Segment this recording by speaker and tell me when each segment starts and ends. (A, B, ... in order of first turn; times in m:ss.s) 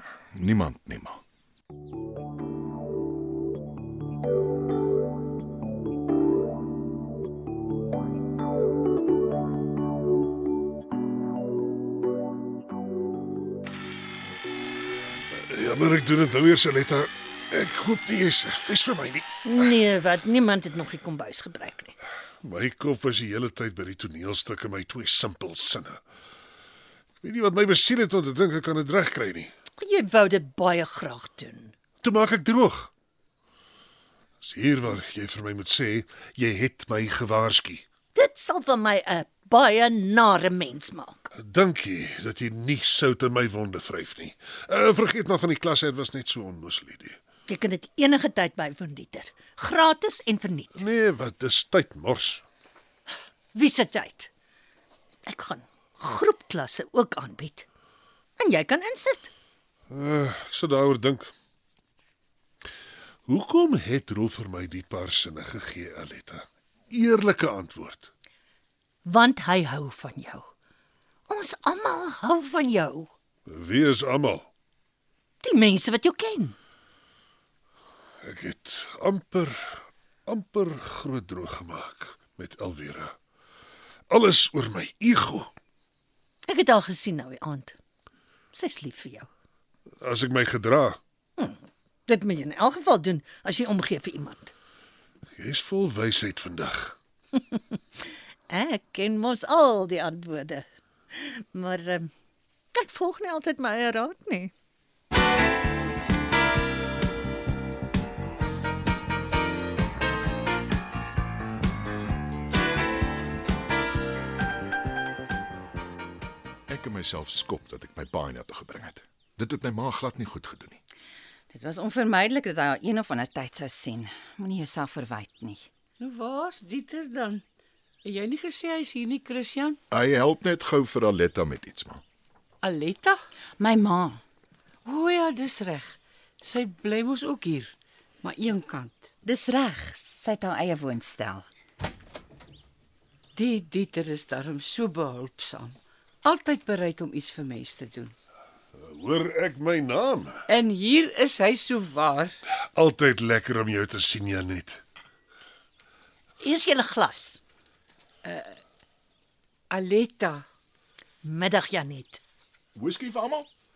0:00.3-0:01.2 A
0:15.3-0:19.7 B
0:19.4-0:21.9 C
0:22.4-0:26.0 B
0:27.2-0:29.5 B
0:29.8-0:31.7 C
0:32.0-0:32.9 B
0:34.4-0:37.8 B
0:38.1-0:41.3 C
0:41.3-0:47.2 B
0:47.5-0:50.8 C
0:50.8-0:52.4 B
0:53.5-0:54.3 C
0:55.3-0:57.6 C
0:58.4-0:59.3 C
0:59.9-1:01.3 B
1:03.3-1:08.1 B
1:09.0-1:10.5 C
1:11.3-1:13.1 C
1:13.5-1:14.5 B
1:15.4-1:16.6 C
1:18.2-1:23.1 B
1:24.1-1:25.5 B
1:26.5-1:27.8 C
1:28.5-1:29.3 C
1:30.0-1:31.0 B
1:31.4-1:34.5 C
1:35.4-1:37.0 B
1:38.5-1:42.1 C
1:42.7-1:44.5 C
1:56.7-2:00.8 A
2:01.5-2:05.7 D
2:06.0-2:07.4 E
2:08.0-2:09.8 E
2:09.9-2:12.0 A
2:12.6-2:13.2 E
2:13.6-2:14.2 D
2:14.8-2:19.1 E
2:19.2-2:21.5 D
2:23.3-2:28.1 E
2:28.8-2:30.4 B
2:30.5-2:32.3 E
2:32.7-2:34.8 B
2:36.4-2:37.4 C
2:38.2-2:38.6 E
2:39.7-2:40.4 E
2:41.2-2:42.2 C
2:42.8-2:43.5 A